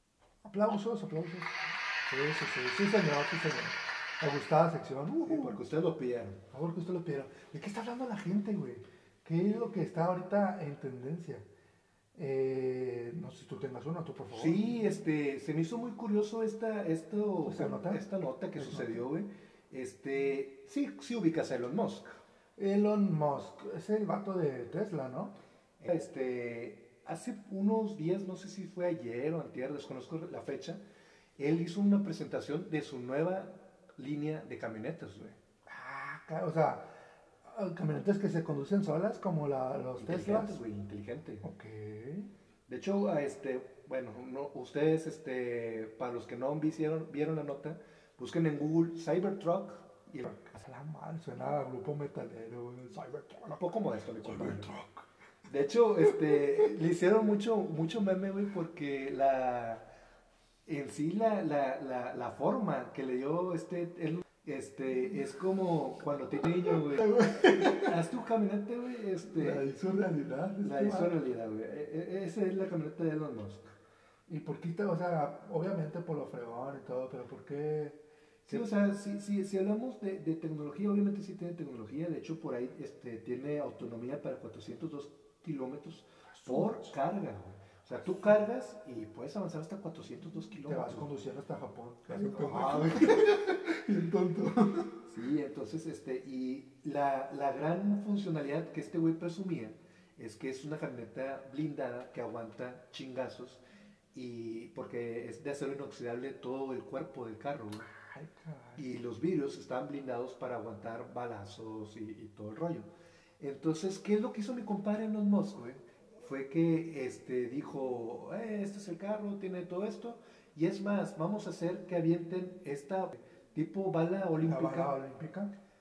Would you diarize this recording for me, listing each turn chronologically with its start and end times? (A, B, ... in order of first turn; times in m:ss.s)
0:00.4-0:05.6 A
0:05.2-0:06.4 B
0:06.5-0:11.4 A
0:12.1-0:14.6 A
0:14.3-0:22.1 B
0:17.4-0:19.0 A
0:22.6-0:25.3 A
0:25.8-0:30.8 B
0:31.4-0:35.4 B
0:35.7-0:36.9 A
0:37.4-0:40.6 A
0:40.0-0:41.5 B
0:41.4-0:42.3 A
0:42.7-0:50.3 B
0:50.3-0:53.6 A
0:53.5-0:54.7 B
0:54.2-0:55.0 A
0:55.5-0:59.8 B
1:00.6-1:09.6 B
1:06.7-1:08.0 A
1:09.3-1:11.2 A
1:10.6-1:13.7 B
1:14.3-1:18.7 A
1:18.5-1:31.1 B
1:26.3-1:26.9 A
1:30.6-1:34.9 A
1:32.1-1:33.2 B
1:35.1-1:43.6 B
1:44.1-1:47.9 B
1:47.9-1:48.8 A
1:48.8-1:52.9 B
1:53.4-2:05.0 B
2:04.4-2:05.5 A